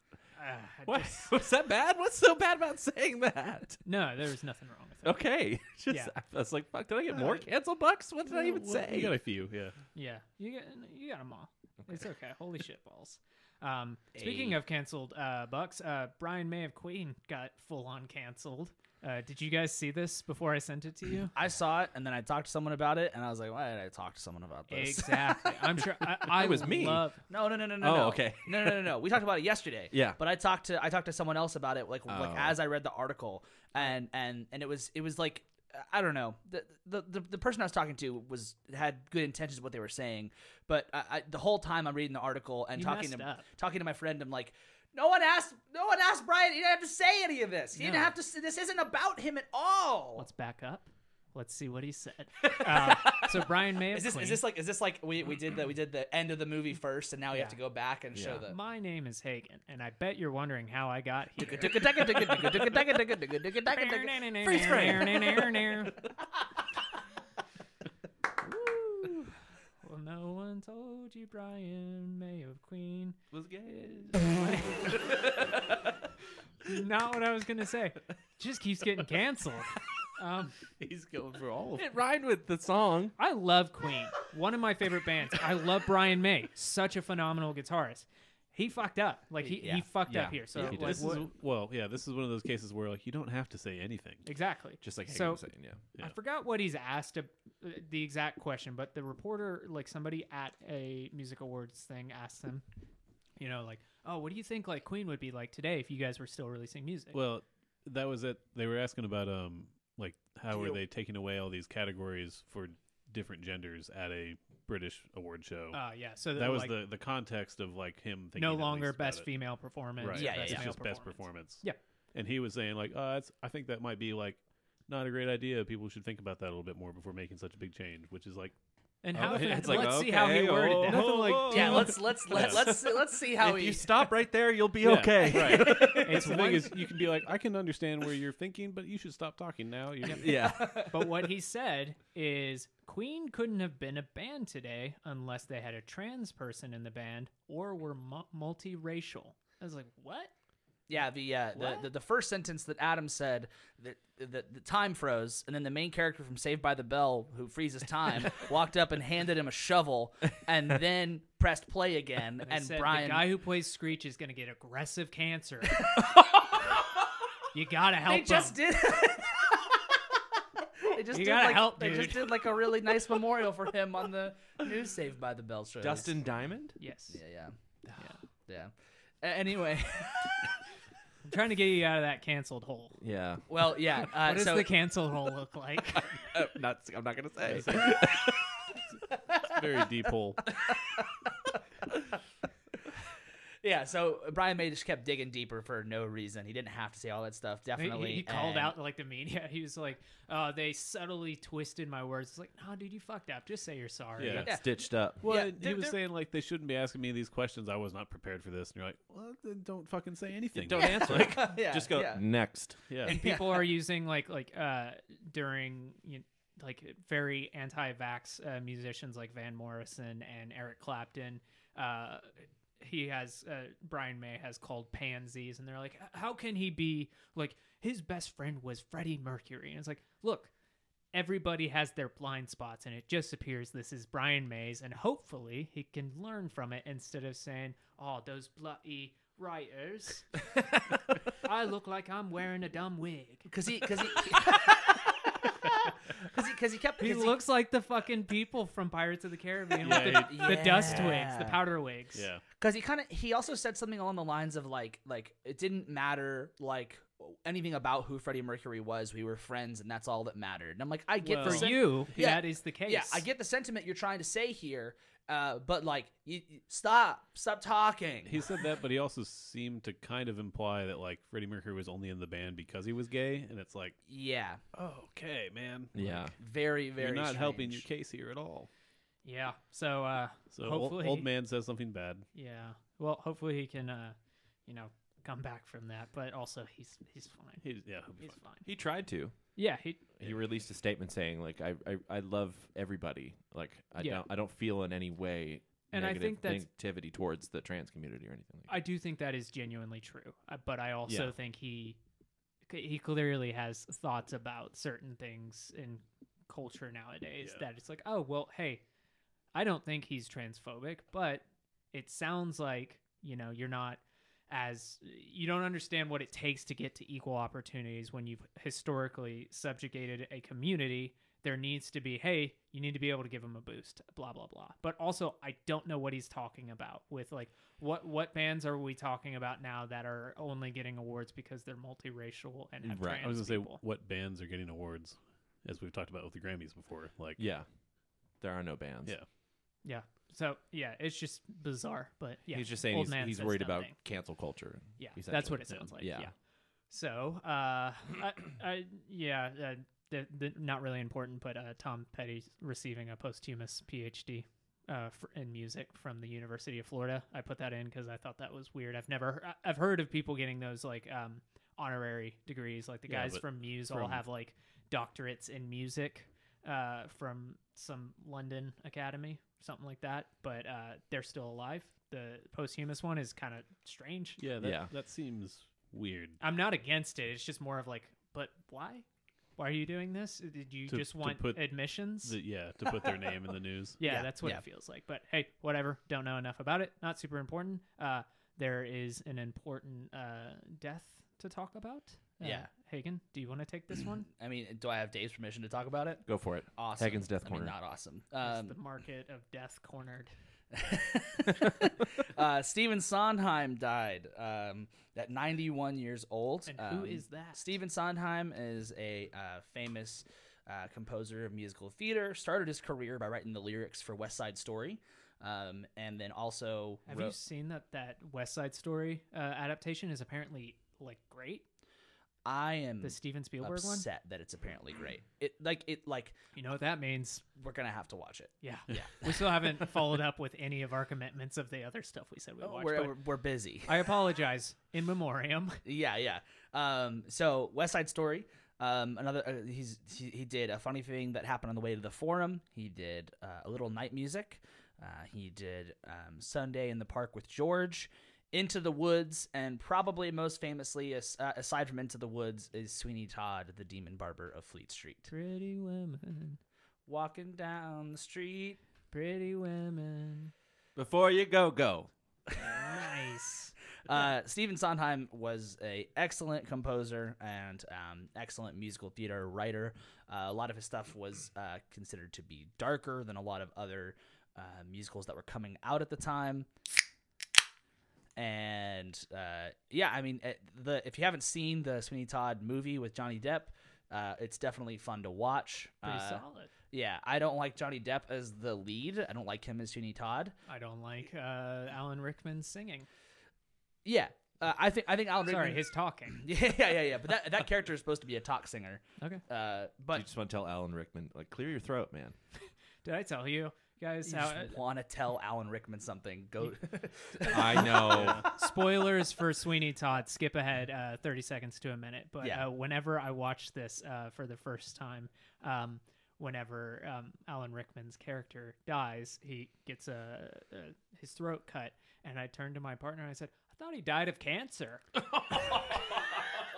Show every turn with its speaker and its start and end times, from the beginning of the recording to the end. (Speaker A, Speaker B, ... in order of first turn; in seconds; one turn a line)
Speaker A: 0.4-1.3
Speaker B: 0.9-3.8
Speaker A: 3.8-5.2
Speaker B: 5.0-9.2
Speaker C: 8.3-9.8
Speaker A: 9.9-21.3
Speaker D: 14.1-14.6
Speaker D: 21.3-25.5
Speaker A: 24.7-27.2
Speaker B: 26.2-27.0
Speaker D: 27.3-50.3
Speaker B: 27.8-28.9
Speaker B: 29.9-30.2
Speaker B: 32.1-32.5
Speaker A: 42.8-43.5
Speaker A: 47.7-48.1
Speaker A: 50.2-54.4
Speaker D: 52.7-58.6
Speaker B: 58.1-58.4
Speaker A: 58.5-62.8
Speaker D: 61.4-64.1
Speaker A: 63.7-66.0
Speaker B: 64.4-65.9
Speaker A: 68.6-75.4
Speaker B: 73.3-74.2
Speaker B: 75.1-75.7
Speaker A: 76.6-80.6
Speaker B: 80.9-83.1
Speaker C: 81.3-81.8
Speaker A: 83.2-91.2
Speaker D: 89.4-89.9
Speaker B: 90.0-91.0
Speaker C: 90.5-94.2
Speaker A: 94.3-95.4
Speaker B: 94.8-95.8
Speaker A: 96.0-102.6
Speaker A: 103.4-107.2
Speaker C: 107.1-115.8
Speaker D: 110.5-110.8
Speaker A: 115.7-116.7
Speaker C: 116.3-119.3
Speaker A: 118.4-121.8
Speaker C: 120.0-128.6
Speaker D: 120.1-120.7
Speaker A: 129.0-131.8
Speaker C: 129.1-132.6
Speaker B: 129.2-136.3
Speaker D: 131.5-133.9
Speaker C: 134.8-140.3
Speaker A: 135.5-136.9
Speaker B: 140.1-140.9
Speaker D: 140.2-141.2
Speaker A: 140.9-150.3
Speaker D: 150.9-163.3
Speaker A: 151.6-151.9
Speaker A: 162.4-166.0
Speaker D: 165.9-166.6
Speaker A: 167.5-168.6
Speaker D: 168.1-169.8
Speaker D: 170.8-176.1
Speaker A: 171.1-172.4
Speaker B: 175.8-176.8
Speaker A: 176.8-177.2
Speaker D: 177.1-177.6
Speaker D: 178.5-180.5
Speaker A: 181.2-183.0
Speaker B: 183.0-183.4
Speaker D: 183.5-184.7
Speaker A: 184.1-186.1
Speaker B: 185.9-188.4
Speaker C: 187.5-188.0
Speaker D: 189.1-189.4
Speaker C: 189.4-190.4
Speaker D: 190.6-191.2
Speaker D: 193.6-198.7
Speaker A: 197.8-204.5
Speaker C: 204.2-204.5
Speaker B: 204.3-205.2
Speaker D: 204.3-204.7
Speaker C: 205.2-211.4
Speaker D: 205.2-206.0
Speaker B: 210.5-212.8
Speaker D: 210.8-212.2
Speaker C: 212.9-213.2
Speaker D: 213.0-213.7
Speaker A: 213.1-230.5
Speaker A: 231.1-240.5
Speaker A: 241.4-243.5
Speaker D: 243.5-247.4
Speaker A: 247.0-252.2
Speaker C: 249.8-251.0
Speaker D: 249.9-251.6
Speaker C: 252.1-252.4
Speaker D: 252.6-268.4
Speaker A: 261.2-263.3
Speaker C: 261.4-261.8
Speaker C: 268.2-273.9
Speaker D: 274.1-274.6
Speaker C: 274.7-276.4
Speaker B: 275.9-276.3
Speaker D: 276.4-277.9
Speaker C: 277.0-278.7
Speaker A: 279.2-281.3
Speaker C: 280.5-282.3
Speaker A: 282.3-287.6
Speaker C: 287.6-288.4
Speaker A: 288.2-288.6
Speaker B: 288.6-289.4
Speaker A: 289.6-290.1
Speaker B: 290.2-298.8
Speaker A: 295.9-296.6
Speaker A: 298.7-302.0
Speaker B: 301.1-301.3
Speaker A: 302.7-308.8
Speaker A: 309.5-333.8
Speaker B: 332.8-333.3
Speaker C: 333.2-337.4
Speaker B: 337.4-337.7
Speaker B: 338.4-339.1
Speaker A: 339.8-343.9
Speaker B: 342.5-346.3
Speaker A: 345.0-346.3
Speaker A: 346.9-374.4
Speaker C: 363.1-364.2
Speaker C: 374.4-376.4
Speaker B: 374.6-374.9
Speaker A: 376.4-379.1
Speaker A: 379.6-382.4
Speaker C: 380.9-384.0
Speaker A: 384.0-394.3
Speaker D: 384.0-384.6
Speaker D: 392.4-392.7
Speaker D: 394.3-396.2
Speaker B: 396.3-397.7
Speaker D: 396.7-398.8
Speaker A: 398.4-400.3
Speaker D: 400.7-417.4
Speaker A: 406.7-407.7
Speaker A: 417.1-421.6
Speaker D: 422.4-426.4
Speaker A: 423.0-424.1
Speaker A: 426.6-427.4
Speaker D: 427.6-429.5
Speaker A: 428.6-433.2
Speaker D: 432.6-434.1
Speaker A: 433.9-435.8
Speaker D: 435.8-455.3
Speaker A: 455.3-456.6
Speaker D: 457.1-458.8
Speaker A: 459.1-460.5
Speaker B: 460.9-462.1
Speaker D: 462.5-462.9
Speaker A: 462.6-463.7
Speaker D: 464.1-476.7
Speaker D: 478.4-490.6
Speaker A: 486.1-486.7
Speaker A: 490.7-493.1
Speaker D: 494.1-500.2
Speaker A: 495.4-496.4
Speaker B: 500.1-502.3
Speaker A: 503.0-504.8
Speaker D: 504.3-508.3
Speaker B: 507.4-508.4
Speaker C: 508.1-508.4
Speaker A: 508.4-525.1
Speaker B: 525.5-526.0